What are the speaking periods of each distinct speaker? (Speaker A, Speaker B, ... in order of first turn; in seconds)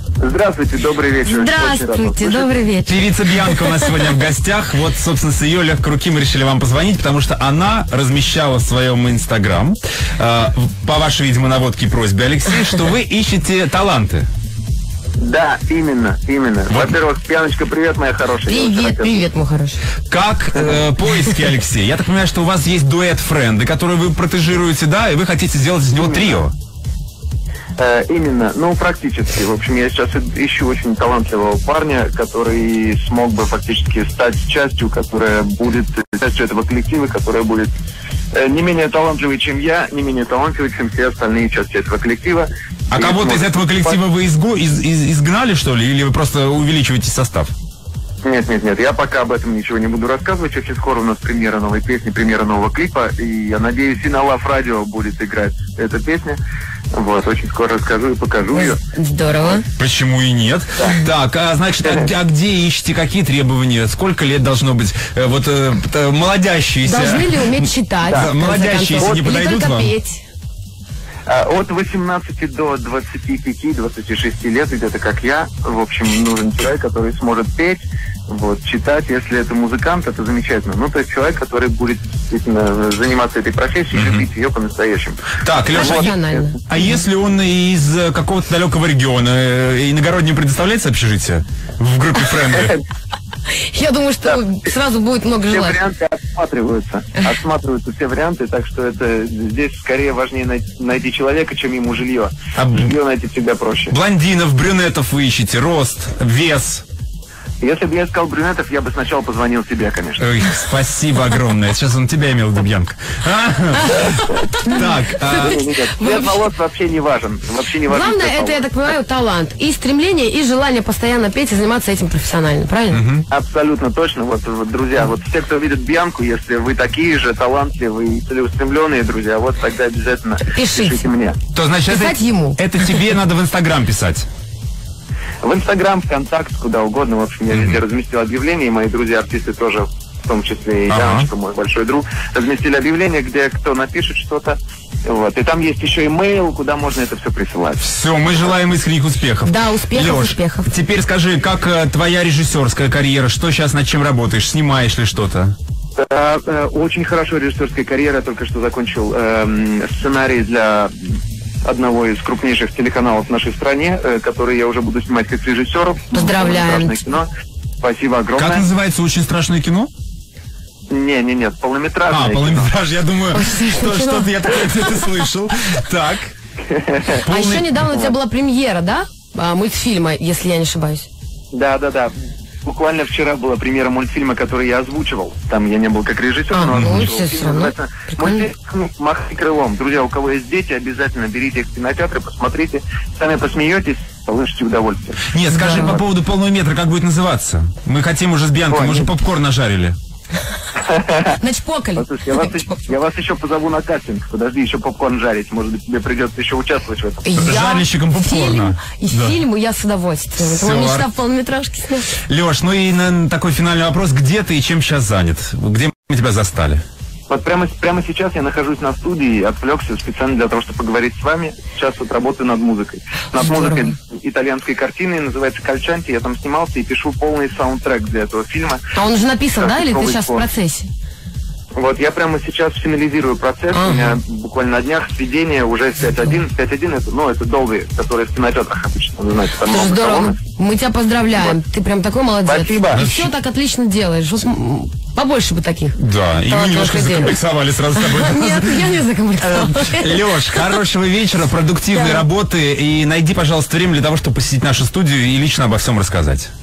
Speaker A: 0.2-2.5, 15.2-19.3, 20.6-20.8, 26.0-26.4, 27.8-37.7, 38.3-44.0, 48.2-56.4, 56.9-58.8, 61.8-62.1, 68.1-68.3, 69.0-69.3, 71.3-86.0, 92.5-92.8, 95.5-104.0, 107.6-110.3, 115.2-118.7, 123.3-131.4, 135.4-147.8, 156.0-161.1, 161.6-167.3, 167.8-168.7, 170.9-172.8, 176.7-177.2, 181.5-182.1, 182.6-196.0, 198.7-199.1, 200.8-201.4, 202.0-207.4, 217.3-228.8, 229.5-230.5, 231.8-240.4, 241.3-241.6, 242.5-243.1
Speaker B: 1.2-4.1, 18.5-19.8, 58.5-59.6, 66.8-70.2, 85.7-86.9, 93.5-95.8, 113.8-116.4, 117.9-123.0, 130.5-131.1, 131.9-132.6, 149.4-150.7, 166.1-167.0, 173.3-175.2, 177.3-181.1, 186.5-188.5, 195.5-196.0, 201.3-202.8, 207.2-212.1, 223.3-223.9, 228.9-230.9, 233.7-234.2, 239.6-247.4, 247.9-250.8, 251.9-252.3
Speaker C: 2.9-14.3, 20.1-26.5, 42.9-47.5, 59.8-67.4, 68.1-69.9, 83.9-84.3, 85.4-92.8, 102.6-102.9, 103.9-106.8, 110.2-115.6, 122.9-123.2, 131.5-134.3, 137.5-137.8, 140.9-141.3, 147.8-155.6, 168.4-169.9, 172.1-176.3, 177.2-177.8, 186.7-187.1, 195.3-200.0, 207.3-209.4, 210.4-211.1, 212.3-216.8, 242.9-243.3, 246.0-249.0, 249.5-256.5